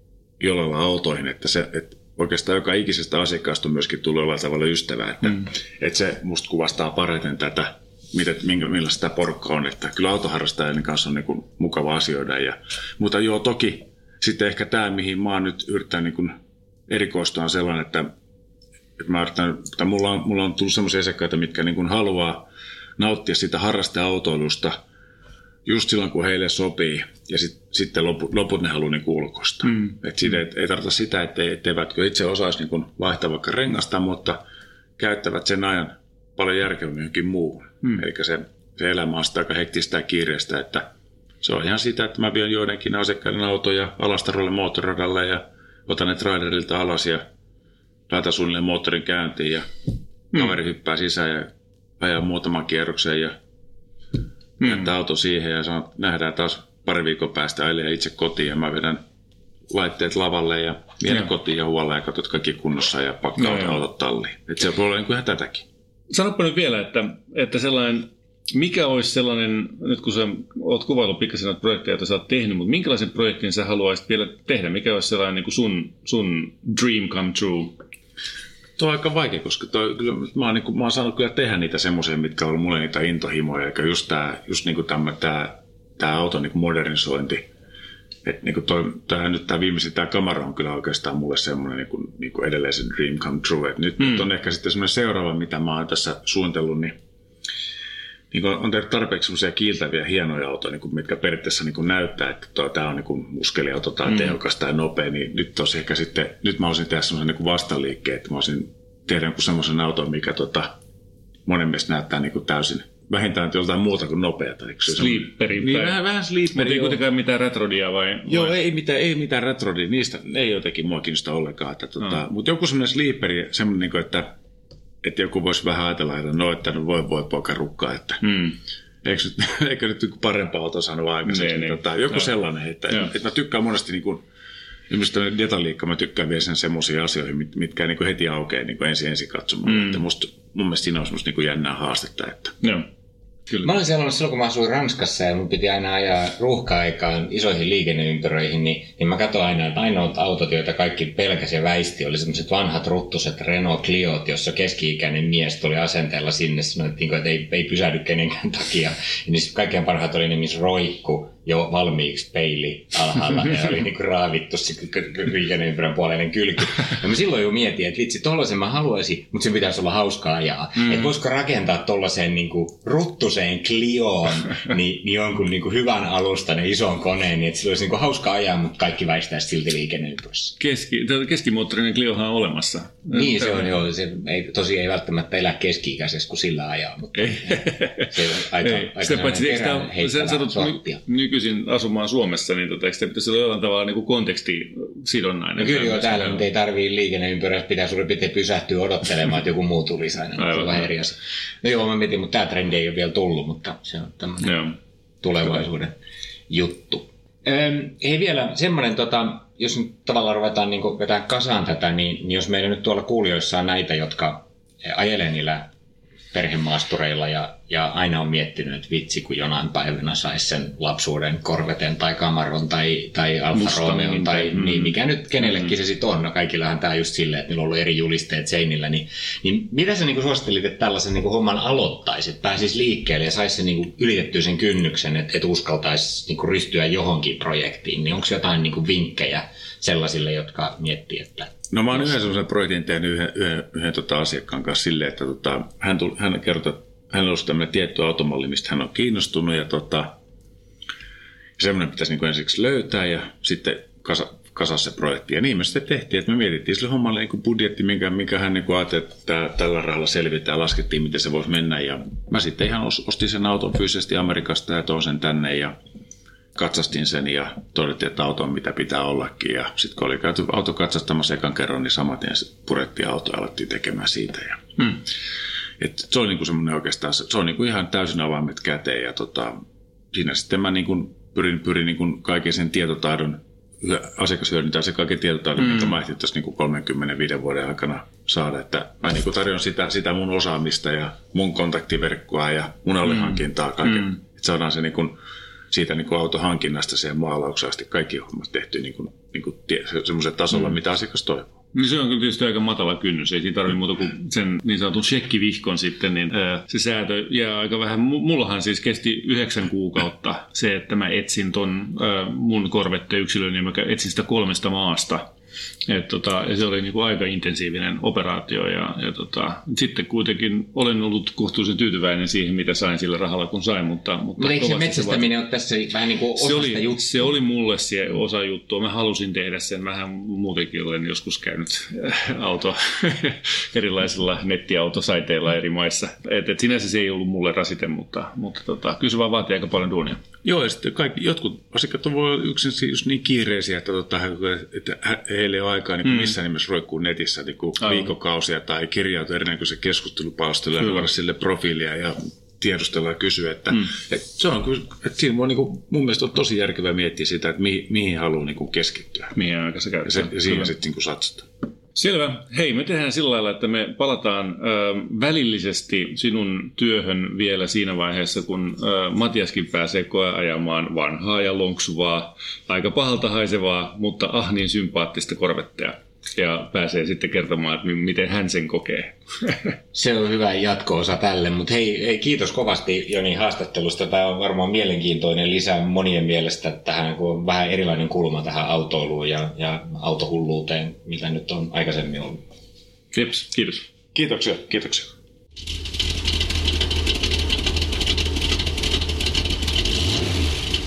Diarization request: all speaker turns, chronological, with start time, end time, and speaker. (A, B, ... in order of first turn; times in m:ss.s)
0:00.4-0:16.4 A
0:16.9-0:18.1 A
0:19.0-0:24.8 A
0:25.6-0:34.4 A
0:35.0-0:40.9 A
0:41.4-0:47.3 A
0:48.1-0:49.7 A
0:50.3-0:53.4 A
0:54.6-0:54.9 B
0:54.6-0:59.0 A
0:59.7-1:05.7 A
1:03.4-1:03.8 B
1:06.1-1:17.8 B
1:18.8-1:27.5 A
1:28.2-1:37.0 A
1:34.0-1:34.2 B
1:38.3-1:50.8 A
1:44.1-1:44.4 B
1:51.5-1:57.0 A
1:54.9-1:56.0 B
1:56.6-1:58.5 B
1:58.3-2:04.3 A
2:05.0-2:08.3 A
2:08.2-2:08.6 B
2:09.0-2:14.2 A
2:11.3-2:12.2 B
2:14.9-2:22.6 A
2:19.7-2:20.0 B
2:22.6-2:22.9 B
2:23.6-3:00.6 C
2:50.8-2:51.1 B
3:00.6-3:03.7 B
3:03.1-3:11.0 C
3:07.2-3:08.1 B
3:08.6-3:16.4 B
3:15.6-3:24.6 C
3:20.4-3:20.9 B
3:24.4-3:24.8 B
3:25.2-3:26.0 C
3:26.5-3:35.7 C
3:36.3-4:01.6 C
3:43.5-3:45.7 B
4:01.7-4:10.2 A
4:11.6-4:25.8 A
4:26.6-4:34.7 A
4:35.8-4:39.6 A
4:40.1-4:55.2 A
4:45.6-4:45.9 B
4:53.1-4:54.1 B
4:55.7-5:01.6 A
5:01.8-5:15.3 B
5:15.9-5:25.3 B
5:24.4-5:27.4 C
5:26.4-5:40.2 B
5:40.4-5:59.3 A
5:46.0-5:46.3 B
5:47.8-5:48.1 B
5:50.8-5:51.1 B
5:59.4-6:00.7 B
6:00.0-6:01.5 A
6:02.0-6:19.7 B
6:19.9-6:32.4 C
6:33.1-6:33.8 B
6:34.2-6:35.1 A